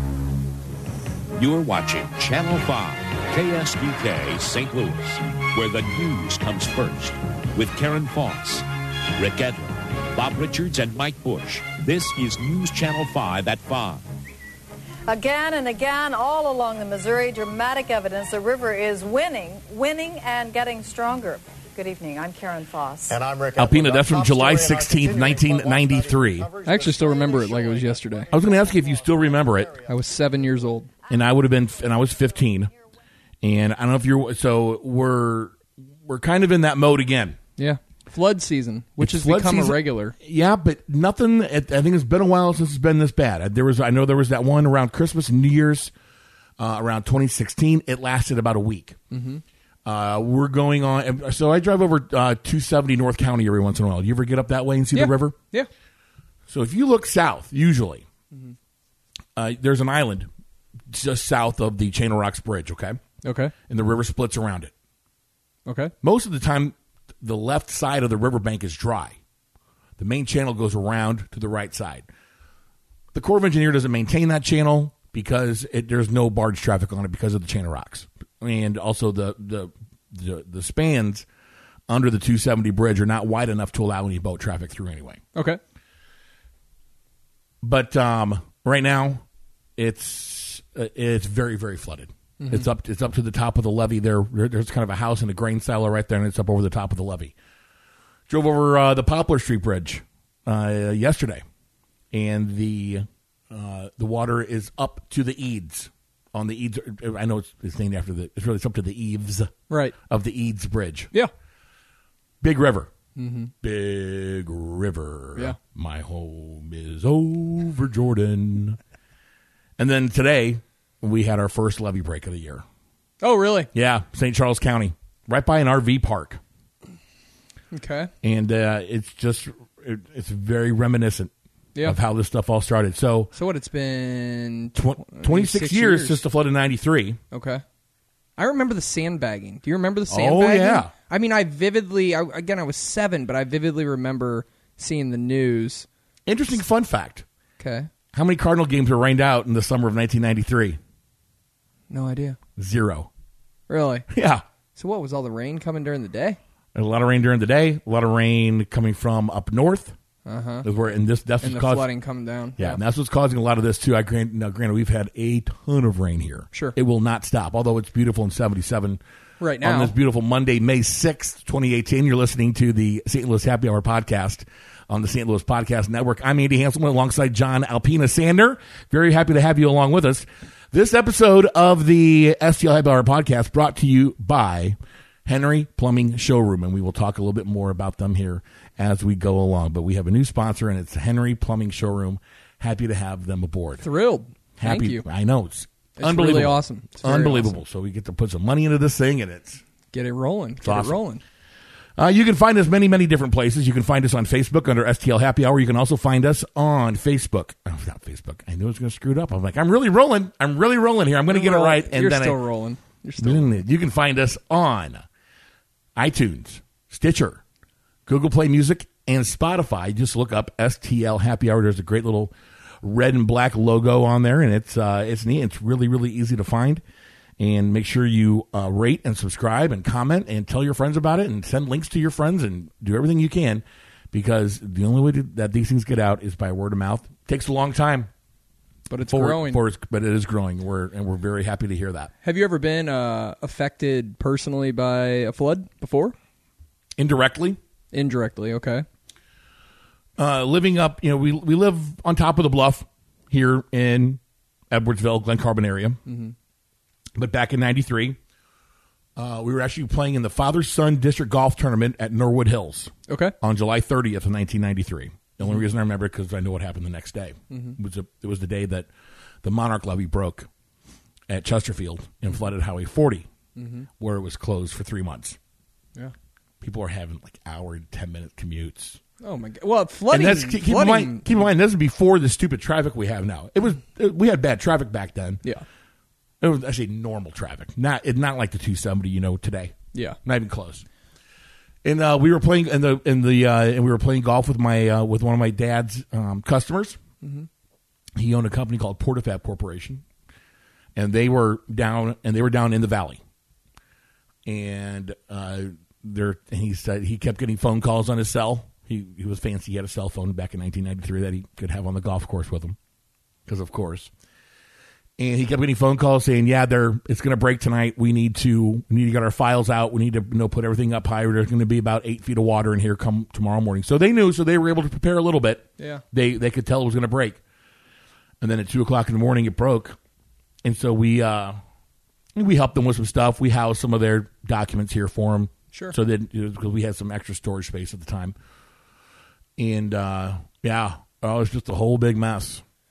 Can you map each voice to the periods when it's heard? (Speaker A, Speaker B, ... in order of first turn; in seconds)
Speaker A: 1.4-14.0
Speaker B: 15.1-23.3
Speaker C: 23.2-23.7, 24.3-25.0, 26.5-27.2
Speaker D: 23.5-26.6, 28.3-29.8, 31.1-32.7, 33.4-37.4, 39.0-45.9, 46.6-49.0, 49.9-55.4, 56.5-58.1, 59.4-60.3, 60.9-63.0, 63.7-64.7, 66.0-69.2, 70.0-72.1, 73.1-81.3, 81.9-85.2, 87.6-89.2, 89.8-97.3, 98.3-101.4, 102.1-109.5, 110.1-111.1, 112.4-112.9, 113.6-118.8, 119.8-122.7, 123.7-126.4, 128.2-131.3, 131.8-133.3, 134.8-137.2, 140.1-140.9, 146.3-147.2, 148.1-150.8, 152.6-153.1, 154.1-154.4, 156.7-160.0, 160.6-161.9, 162.6-169.0, 169.6-193.9, 194.6-199.6, 200.6-201.0, 202.0-212.4, 213.2-215.1, 216.0-217.4, 218.1-226.8, 227.4-238.1, 239.1-242.1, 247.0-247.6, 250.2-254.2, 254.7-256.0, 257.2-258.2, 259.2-268.9, 269.4-270.5, 271.3-273.3, 274.0-275.4, 276.6-279.0, 280.1-285.4, 286.4-290.9, 291.8-297.0, 298.2-300.0, 300.9-303.2, 304.4-312.8, 313.5-314.1, 315.2-327.4, 328.4-330.0, 330.6-331.6, 332.4-338.4, 339.6-342.6
Speaker E: 26.6-28.3, 29.9-30.9, 37.6-40.1, 49.1-49.4, 54.9-55.7, 63.2-63.5, 65.7-65.9, 85.3-85.6, 92.4-92.7, 109.7-110.0, 113.2-113.5, 123.2-123.7, 127.7-128.1, 133.3-136.2, 137.3-137.6, 138.4-145.9, 147.6-147.9, 151.9-152.4, 153.7-154.1, 154.8-156.4, 160.3-160.7, 161.4-162.8, 169.4-169.9, 193.8-195.0, 196.0-197.6, 199.9-201.2, 211.3-213.6, 238.9-239.6, 242.2-246.2, 247.9-248.8, 256.1-256.4, 263.1-263.3, 267.5-267.8, 273.6-273.9, 279.2-281.4, 297.2-297.5